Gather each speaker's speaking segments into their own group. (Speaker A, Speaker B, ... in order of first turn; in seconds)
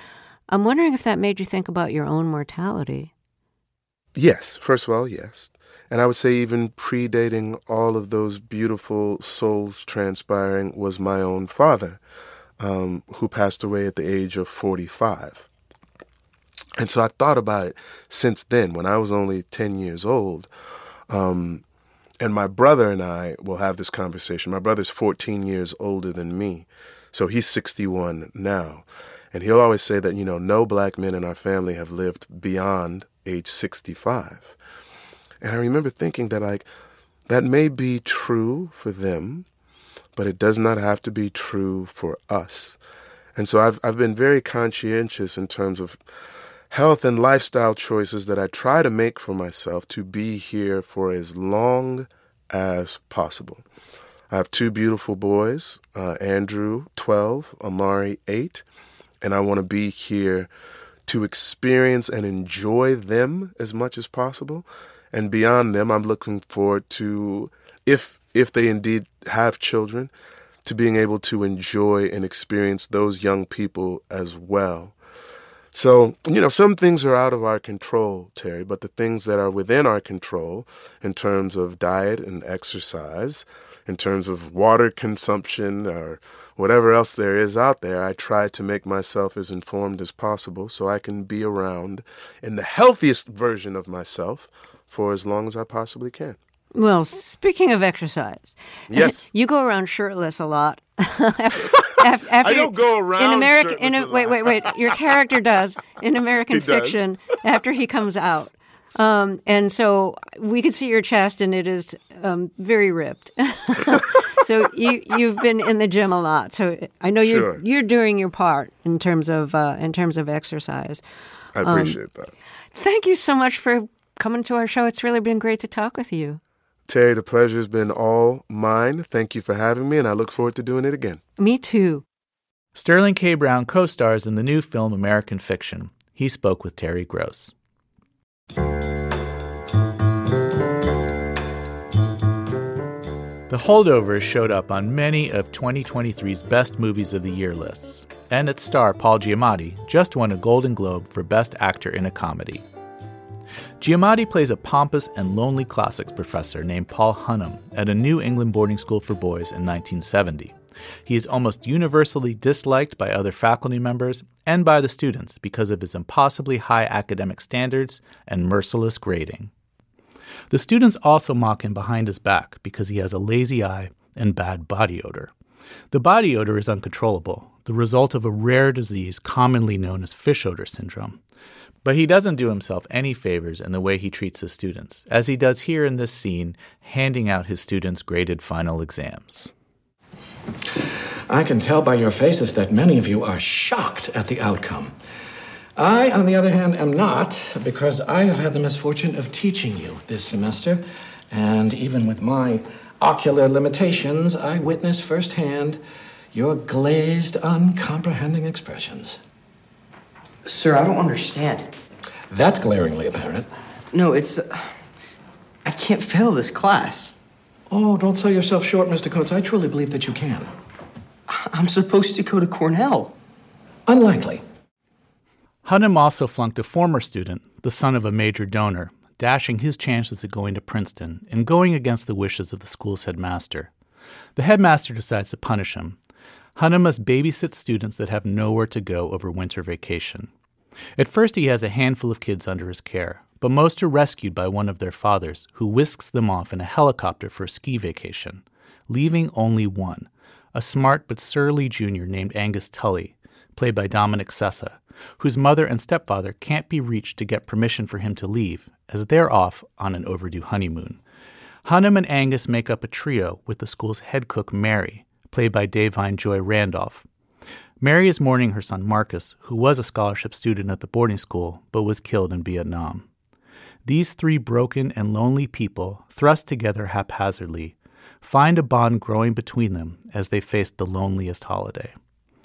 Speaker A: 0.5-3.1, 96.7-121.0, 121.6-122.0, 122.7-126.4, 131.4-132.0
Speaker B: 4.1-12.0, 12.6-15.5, 16.8-20.5, 21.1-21.6, 22.2-34.6, 35.4-36.7, 37.3-39.5, 40.1-42.8, 43.3-46.0, 46.7-53.6, 54.3-58.6, 59.2-60.5, 61.1-70.1, 70.6-75.0, 75.7-96.4, 98.9-99.2, 102.3-105.0, 106.5-107.0, 117.2-117.6, 121.5-122.3, 126.9-131.2
Speaker C: 132.7-137.5, 143.5-152.6, 153.8-160.5, 161.1-169.5, 170.5-175.3, 175.9-181.2, 181.8-189.5, 225.6-233.7, 234.3-236.0, 236.6-240.3, 240.9-261.0, 261.6-267.0, 267.8-273.1, 273.8-281.9
Speaker D: 191.3-194.9, 195.8-205.8, 206.3-209.2, 212.3-213.5, 217.7-220.5, 223.9-224.4
Speaker E: 210.5-211.6, 213.9-214.6, 215.7-217.1, 221.5-223.1